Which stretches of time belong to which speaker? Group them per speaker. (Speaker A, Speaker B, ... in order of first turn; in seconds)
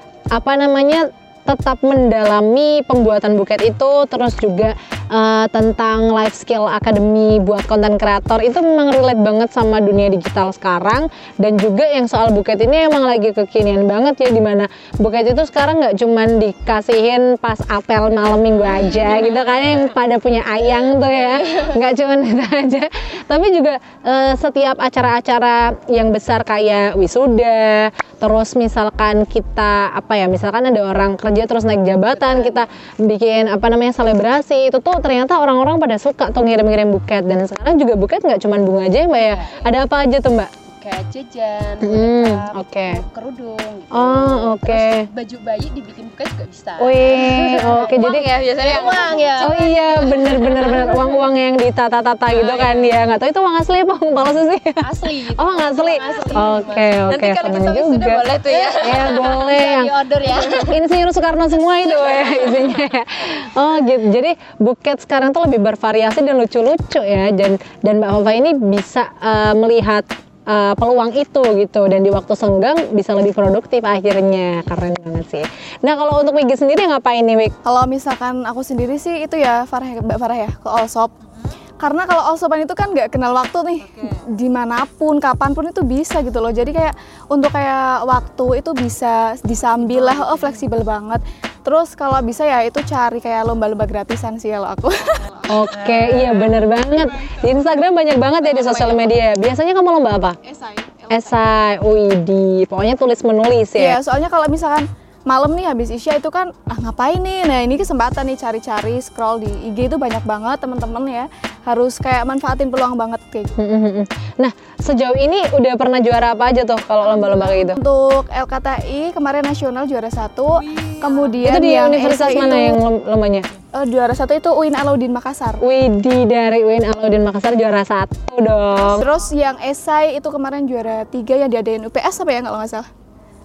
Speaker A: 0.3-40.5, 41.8-43.0, 43.9-45.1, 46.8-48.3, 49.4-58.2, 58.8-59.9, 60.6-77.5, 95.5-100.4, 101.1-104.0, 113.6-117.8, 121.4-123.5, 125.6-129.1
Speaker B: 32.1-32.7, 39.1-39.7, 40.7-51.0, 54.8-57.0, 58.5-60.8
Speaker C: 47.5-49.6, 52.3-52.9, 57.1-59.3, 89.9-90.3, 95.8-96.6
Speaker D: 77.7-81.1, 81.8-95.7, 98.5-99.1, 100.5-101.4, 103.8-113.5, 117.0-122.8, 123.7-125.6, 128.8-132.9